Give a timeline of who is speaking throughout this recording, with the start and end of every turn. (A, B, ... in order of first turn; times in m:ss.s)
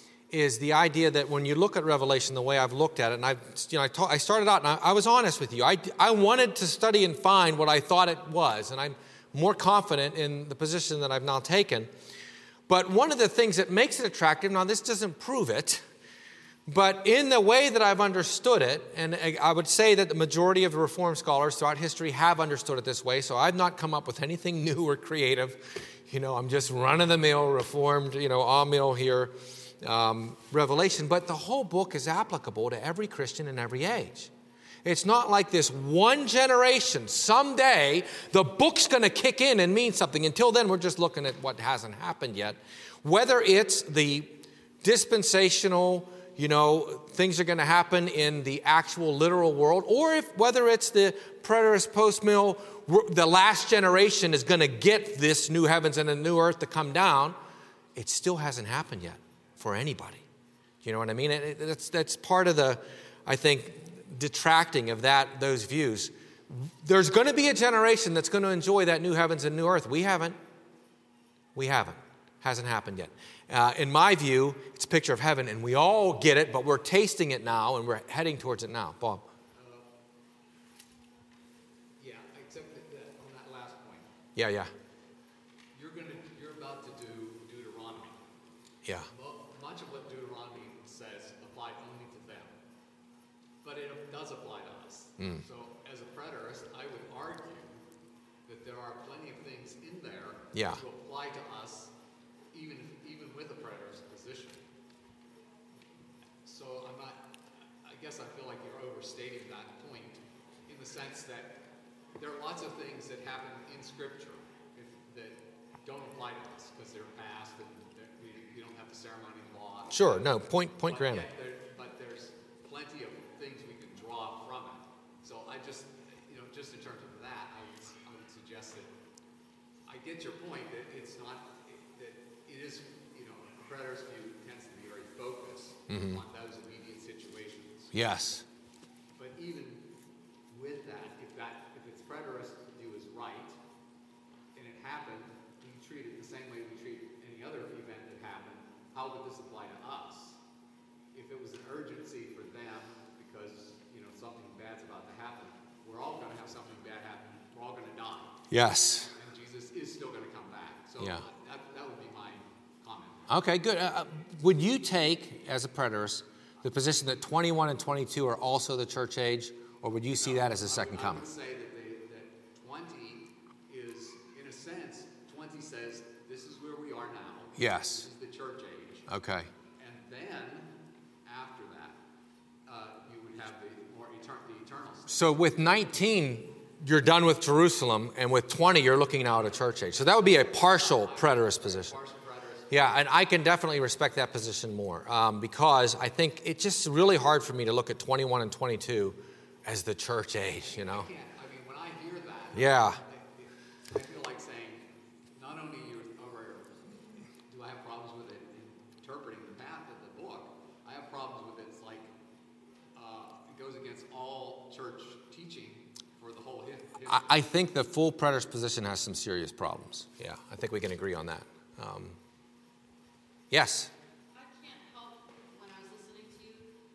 0:00.3-0:11.9 A
0:12.7-0:15.8 A
0:16.7-0:34.3 A
0:34.8-0:57.4 A
0:58.0-1:00.2 A
1:00.8-1:10.4 A
1:11.5-1:19.2 A
1:19.5-1:19.9 B
1:22.0-1:24.1 B
1:24.4-1:24.7 A
1:25.7-1:28.2 B
1:29.1-1:32.5 B
1:33.6-1:37.8 B
1:35.2-1:35.4 A
1:38.4-1:41.9 B
1:40.5-1:40.8 A
1:42.5-1:44.6 B
1:46.4-1:47.3 B
1:47.8-1:51.6 B
1:52.2-2:08.9 B
1:59.9-2:01.3 A
2:09.9-2:17.9 B
2:15.9-2:16.2 A
2:17.9-2:18.4 A
2:19.2-2:19.9 B
2:20.5-2:23.6 B
2:24.5-2:30.4 B
2:31.1-2:38.4 B
2:38.5-2:39.1 A
2:39.1-2:43.2 B
2:43.3-2:51.2 A
2:50.1-2:59.1 B
2:57.6-2:58.0 A
2:59.1-2:59.5 A
2:59.8-3:00.7 B
3:01.2-3:02.0 B
3:02.6-3:05.2 B
3:05.1-3:11.9 A
3:10.0-3:12.9 B
3:12.7-3:21.1 A
3:20.7-3:32.1 B
3:22.5-3:23.0 A
3:32.9-3:37.3 B
3:37.1-3:42.2 A
3:43.5-3:43.9 A
3:44.3-3:46.7 C